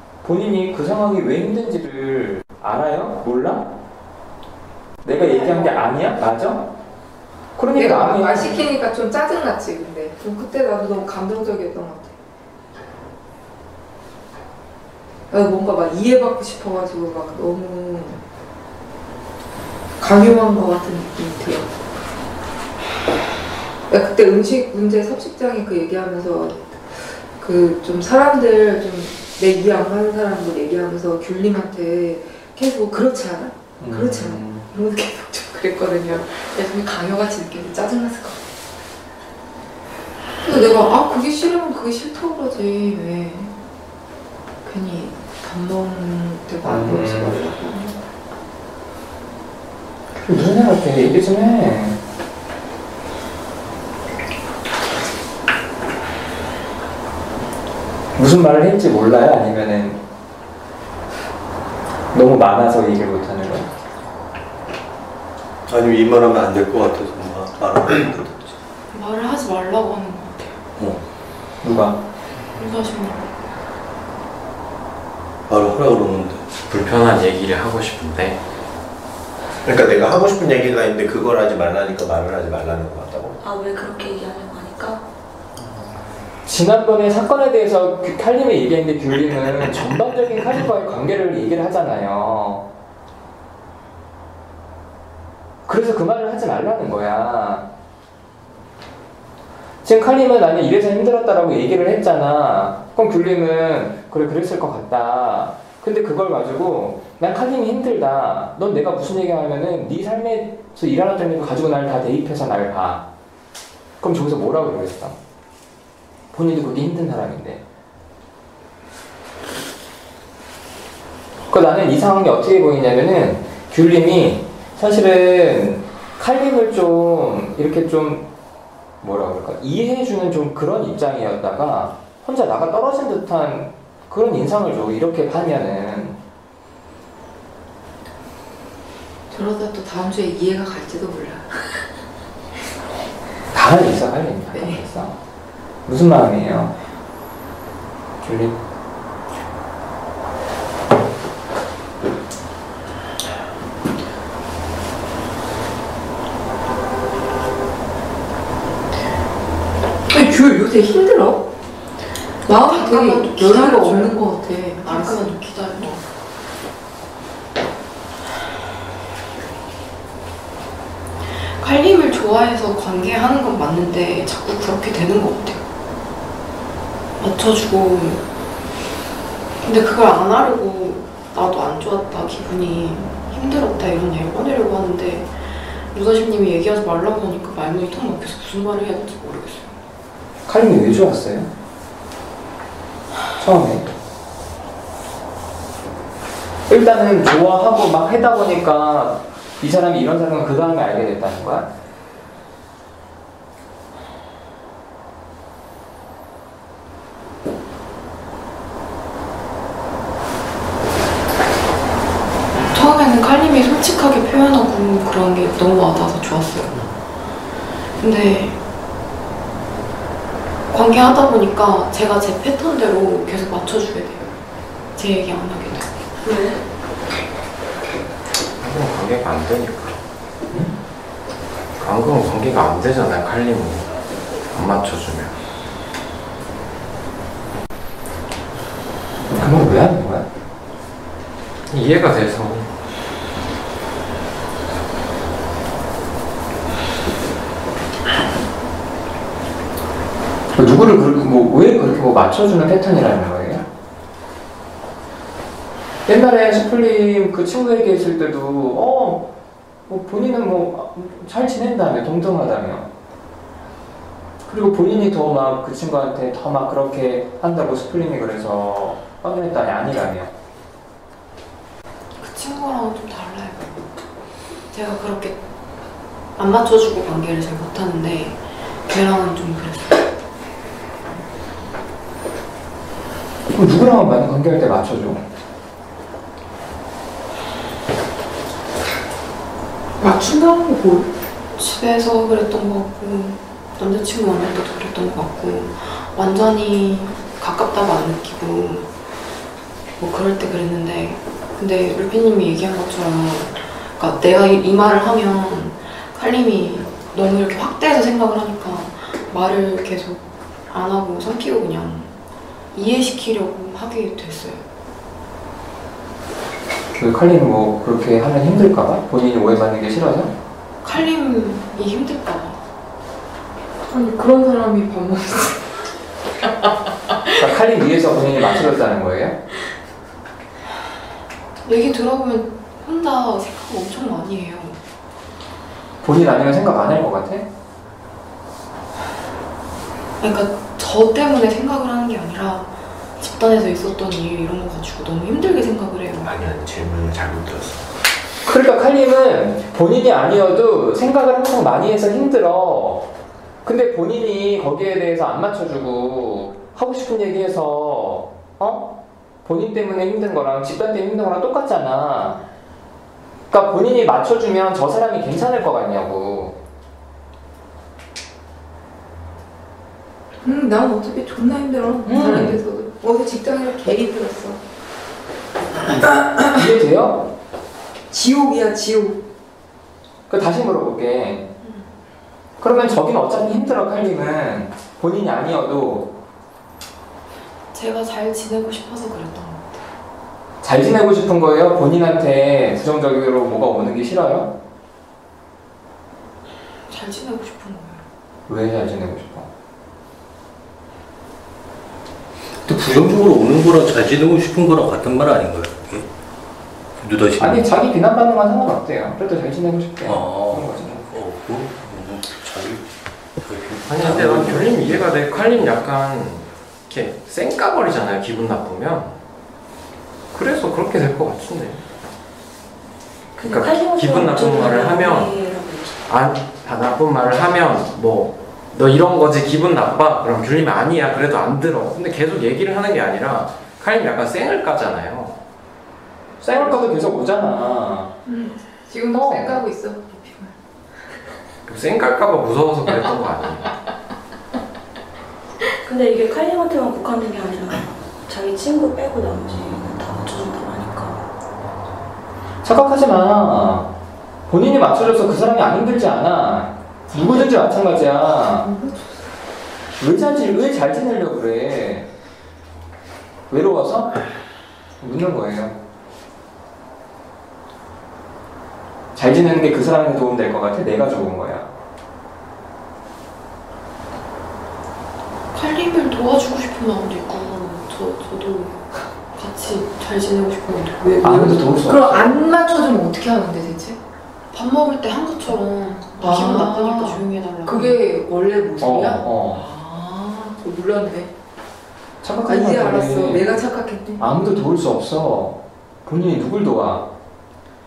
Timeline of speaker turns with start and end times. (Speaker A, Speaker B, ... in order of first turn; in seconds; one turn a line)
Speaker A: 0.2-3.7
Speaker A: 5.0-6.7
Speaker B: 5.0-5.9
Speaker A: 7.6-8.6
Speaker B: 7.7-12.1
Speaker B: 15.3-18.2
Speaker B: 20.0-21.7
Speaker B: 23.9-38.4
Speaker A: 33.8-34.7
Speaker B: 40.4-43.5
Speaker B: 44.6-48.0
Speaker A: 46.6-47.4
Speaker A: 50.1-52.0
Speaker A: 58.1-60.0
Speaker A: 62.1-63.7
Speaker C: 65.7-68.6
Speaker D: 68.9-70.6
Speaker C: 70.8-71.0
Speaker A: 71.6-72.0
Speaker D: 72.6-73.3
Speaker C: 75.5-76.5
Speaker E: 76.7-78.4
Speaker F: 79.6-83.4
Speaker G: 83.4-85.0
Speaker A: 86.5-92.7
Speaker A: 95.7-97.7
Speaker A: 99.8-113.1
Speaker A: 114.0-115.2
Speaker A: 116.3-117.6
Speaker A: 121.5-128.3
Speaker A: 129.0-136.2
Speaker B: 139.3-141.7
Speaker A: 143.5-145.2
Speaker B: 144.5-144.8
Speaker A: 145.9-146.8
Speaker A: 148.2-148.6
Speaker B: 160.1-161.5
Speaker B: 162.4-166.0
Speaker D: 162.6-164.2
Speaker D: 164.8-166.0
Speaker D: 171.4-175.6
Speaker D: 177.2-178.2
Speaker D: 179.6-189.8
Speaker A: 190.5-191.5
Speaker A: 193.4-193.9
Speaker A: 196.7-201.7
Speaker D: 212.6-216.7
Speaker D: 218.0-218.6
Speaker D: 220.7-224.3
Speaker D: 224.9-225.9
Speaker G: 226.2-226.6
Speaker E: 228.6-230.0
Speaker E: 231.8-235.3
Speaker A: 239.3-240.3
Speaker E: 241.7-242.7
Speaker A: 250.5-253.6
Speaker A: 256.1-259.3
Speaker A: 259.9-262.9
Speaker A: 264.5-270.3
Speaker D: 272.2-273.8
Speaker D: 274.7-275.4
Speaker D: 276.4-280.0
Speaker A: 283.5-285.2
Speaker B: 290.0-291.1
Speaker D: 291.6-298.9
Speaker D: 300.0-312.1
Speaker D: 312.7-314.6
Speaker A: 316.9-320.3
Speaker D: 320.8-322.6
Speaker B: 323.9-325.8
Speaker A: 327.4-329.4
Speaker D: 331.6-334.8
Speaker A: 336.0-337.5
Speaker D: 340.2-346.3
Speaker F: 346.2-347.9
Speaker A: 348.5-353.1
Speaker A: 353.6-362.4
Speaker A: 363.5-366.6
Speaker B: 370.4-374.6
Speaker A: 372.1-372.6
Speaker A: 376.4-377.3
Speaker B: 378.1-379.2
Speaker A: 380.3-381.5
Speaker A: 382.6-386.1
Speaker D: 387.7-389.8
Speaker A: 390.6-394.5
Speaker D: 396.9-398.0
Speaker A: 398.5-399.5
Speaker C: 402.6-406.1
Speaker C: 407.0-407.7
Speaker A: 407.4-411.1
Speaker C: 410.0-412.9
Speaker C: 413.4-415.6
Speaker E: 413.9-419.1
Speaker E: 420.3-421.8
Speaker G: 423.4-426.0
Speaker E: 423.4-425.3
Speaker E: 426.1-435.4
Speaker A: 436.4-438.1
Speaker B: 438.2-440.5
Speaker A: 439.1-439.6
Speaker E: 441.7-443.7
Speaker G: 445.9-451.3
Speaker A: 452.6-453.9
Speaker A: 454.5-458.7
Speaker B: 458.6-459.2
Speaker A: 460.0-462.1
Speaker A: 463.5-464.3
Speaker A: 465.0-465.8
Speaker A: 469.1-471.7
Speaker D: 475.5-478.8
Speaker D: 479.3-481.7
Speaker A: 481.2-482.3
Speaker B: 481.8-484.0
Speaker D: 484.5-488.0
Speaker B: 486.2-491.3
Speaker A: 488.8-489.6
Speaker A: 492.2-493.5
Speaker B: 492.5-494.2
Speaker A: 494.2-497.1